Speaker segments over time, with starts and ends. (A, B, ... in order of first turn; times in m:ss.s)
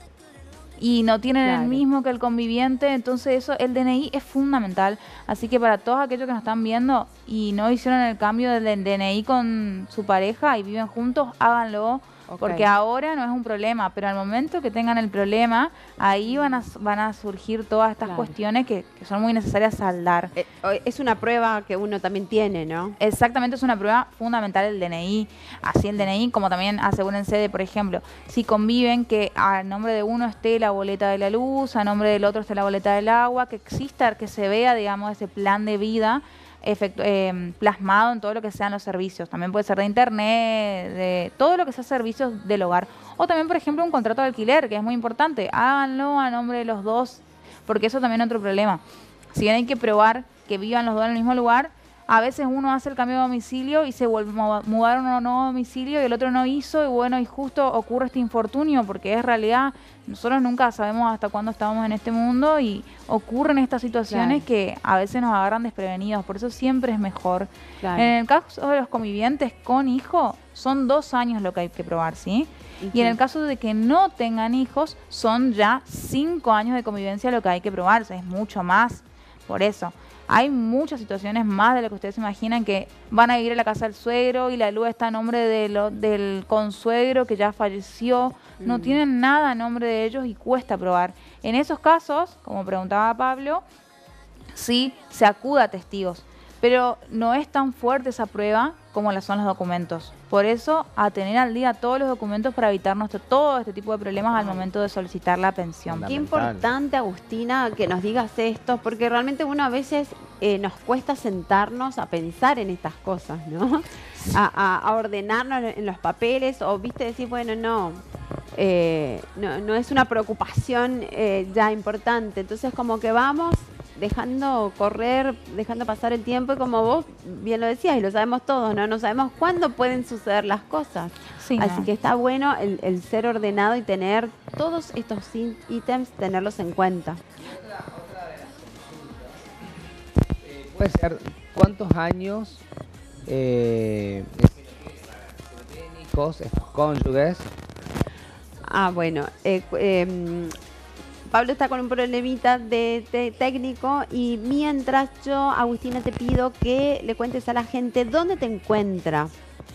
0:00.8-0:20.3 A
0:01.4-0:01.8 B
0:12.3-0:12.7 B
0:16.3-0:16.7 B
0:18.0-0:18.3 B
0:20.4-0:23.0 B
0:23.0-0:48.8 A
0:49.3-1:33.6 A
1:04.1-1:04.4 B
1:07.8-1:08.1 B
1:12.8-1:13.2 B
1:28.6-1:29.0 B
1:34.5-1:46.1 A
1:44.4-1:44.6 B
1:45.9-1:46.7 C
1:46.1-1:58.0 B
1:58.6-2:17.2 B
2:11.4-2:11.9 A
2:17.4-2:19.4 C
2:20.4-2:22.6 C
2:23.3-2:27.5 C
2:28.6-2:30.5 B
2:31.3-2:39.3 B